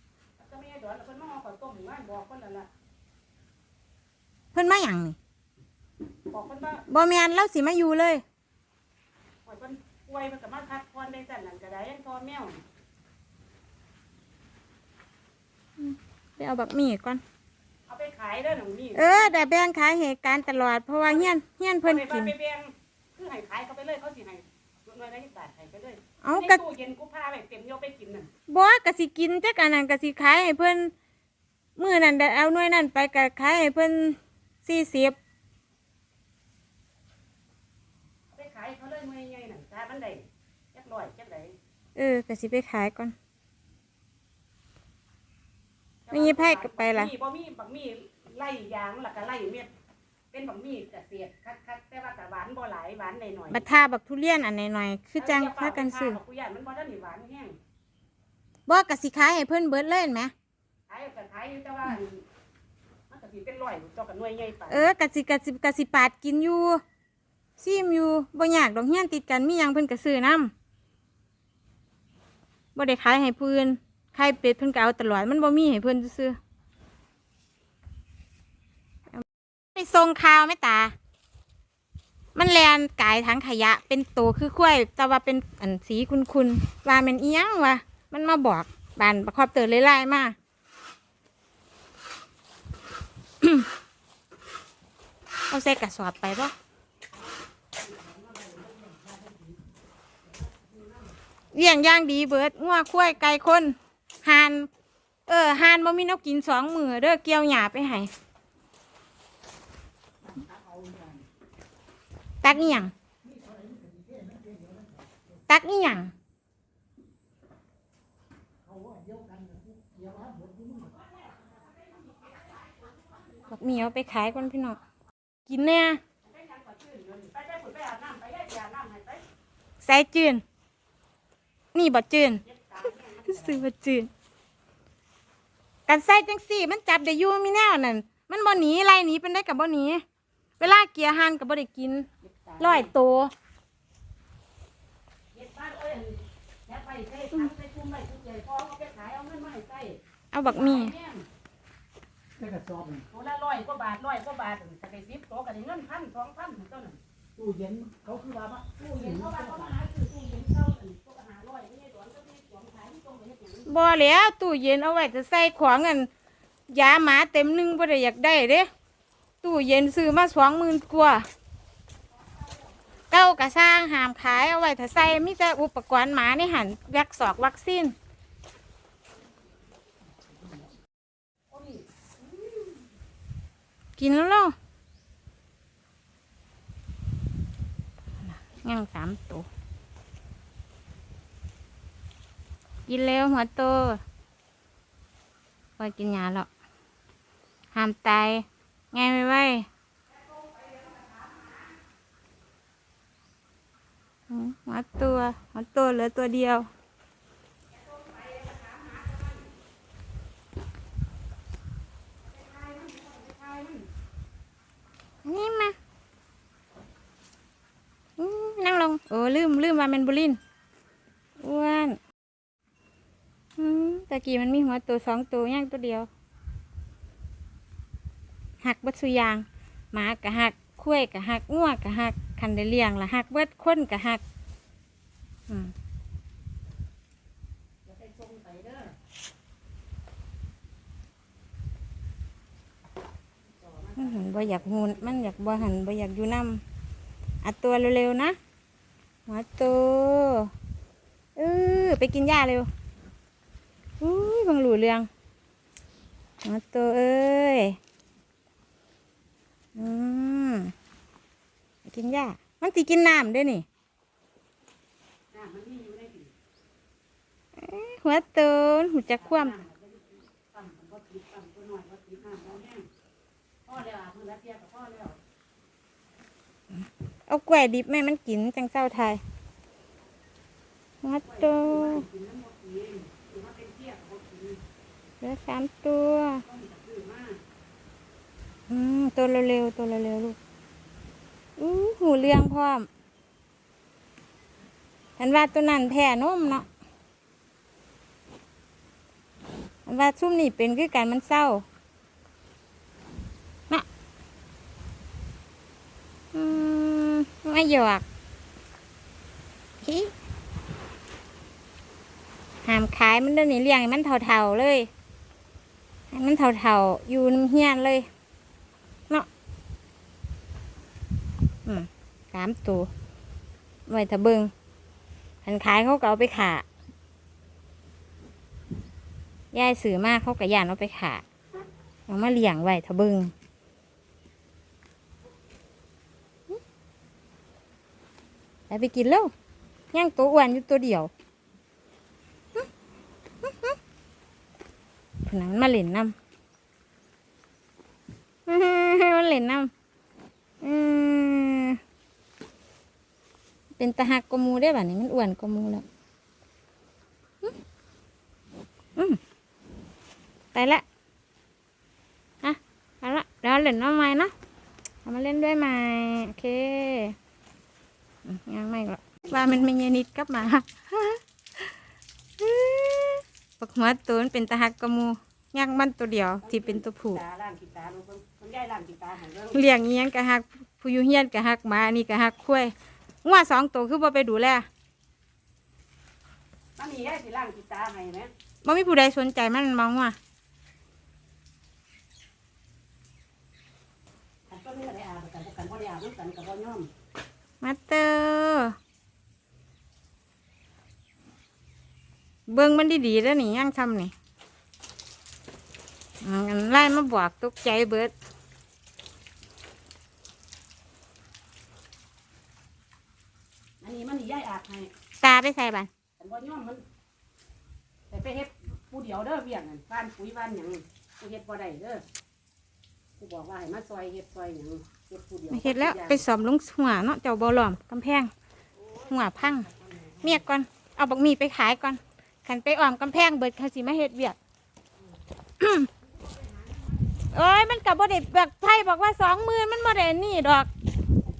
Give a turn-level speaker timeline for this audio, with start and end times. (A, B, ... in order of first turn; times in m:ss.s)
0:00.4-0:02.7 A
0:04.5-0:05.2 B
0:06.3-0:06.8 A
0:06.9-0:08.2 B
0:09.4-0:12.6 A
0:15.8-0:17.2 B
0:17.9-0:19.4 A
0:19.0-0:22.3 B
0:21.1-0:28.3 A
0:26.2-0:26.6 B
0:28.5-0:30.9 B
0:31.8-0:35.2 B
0:38.3-0:41.6 A
0:42.0-0:43.2 B
0:46.1-0:49.7 A
0:46.1-0:47.1 B
0:50.3-0:53.7 A
0:53.5-0:56.2 B
0:55.2-0:57.6 A
0:58.7-1:00.3 B
1:00.9-1:02.2 A
1:03.1-1:04.9 A
1:04.7-1:06.8 B
1:07.6-1:10.5 B
1:12.8-1:16.4 B
1:19.1-1:21.0 B
1:22.4-1:30.4 B
1:33.4-1:33.7 B
1:35.5-1:36.5 B
1:37.7-1:39.6 A
1:40.2-1:41.2 A
1:41.5-1:44.7 B
1:45.3-1:48.1 B
1:50.2-1:51.2 A
1:52.4-1:52.9 B
1:53.3-1:54.9 C
1:55.5-1:56.1 B
1:58.7-2:00.9 C
2:00.8-2:03.0 A
2:03.5-2:04.8 B
2:05.5-2:06.0 B
2:06.2-2:09.2 A
2:09.8-2:10.4 B
2:11.7-2:12.4 B
2:12.4-2:13.7 A
2:13.2-2:14.1 B
2:15.9-2:20.0 B
2:20.6-2:22.1 B
2:22.2-2:22.9 A
2:22.6-2:23.3 B
2:25.3-2:31.3 A
2:30.3-2:30.9 B
2:32.4-2:33.0 C
2:33.0-2:37.0 A
2:37.4-2:39.7 C
2:38.8-2:43.7 A
2:43.7-2:46.1 B
2:46.7-2:48.7 B
2:49.4-2:51.3 B
2:52.3-2:52.7 A
2:53.1-2:58.0 B
3:01.5-3:02.8 A
3:04.0-3:04.6 B
3:08.2-3:09.5 B
3:12.9-3:14.0 B
3:15.8-3:16.5 B
3:17.7-3:19.7 B
3:20.2-3:21.6 A
3:24.3-3:26.7 B
3:27.7-3:29.5 A
3:32.2-3:33.9 A
3:35.2-3:35.8 B
3:38.2-3:40.4 B
3:41.4-3:42.0 B
3:43.6-3:46.1 B
3:48.6-3:54.2 B
3:55.5-3:55.7 B
3:57.8-3:59.0 A
4:03.5-4:05.8 A
4:04.0-4:06.6 B
4:07.4-4:08.4 B
4:09.3-4:10.5 B
4:11.4-4:12.7 B
4:14.0-4:15.1 B
4:16.4-4:17.8 B
4:19.8-4:20.7 B
4:21.9-4:23.7 B
4:25.3-4:26.3 A
4:27.6-4:29.6 B
4:29.2-4:32.9 A
4:33.7-4:35.2 A
4:37.3-4:39.2 B
4:41.0-4:42.1 B
4:41.2-4:44.6 A
4:45.2-4:46.4 B
4:46.5-4:47.4 A
4:48.7-4:50.4 B
4:51.6-4:52.9 B
4:55.2-4:56.7 B
4:59.9-5:01.6 B
5:06.3-5:08.0 B
5:09.8-5:10.1 B
5:12.6-5:14.9 B
5:16.1-5:18.1 B
5:21.7-5:22.9 B
5:23.9-5:24.5 B
5:25.4-5:26.6 B
5:29.5-5:31.2 B
5:32.1-5:33.3 B
5:38.7-5:39.3 B
5:39.9-5:41.1 B
5:43.4-5:43.8 B
5:45.2-5:46.1 B
5:48.5-5:49.7 B
5:50.6-5:51.8 B
5:53.8-5:55.8 B
6:00.5-6:00.8 B
6:02.4-6:04.3 B
6:05.0-6:07.2 B
6:08.2-6:11.8 B
6:09.2-6:09.7 A
6:12.4-6:17.2 B
6:16.4-6:19.6 A
6:19.5-6:24.7 B
6:26.8-6:28.3 A
6:28.6-6:30.2 B
6:34.5-6:36.9 A
6:37.6-6:38.8 B
6:42.5-6:44.1 B
6:46.2-6:48.1 B
6:53.8-6:54.9 A
6:55.2-6:55.9 B
6:56.2-6:56.8 A
6:58.1-7:02.0 A
7:03.2-7:06.3 A
7:05.5-7:08.3 B
7:08.7-7:10.5 A
7:09.1-7:09.7 B
7:10.2-7:14.4 B
7:15.6-7:15.9 B
7:16.0-7:17.4 A
7:17.3-7:20.7 B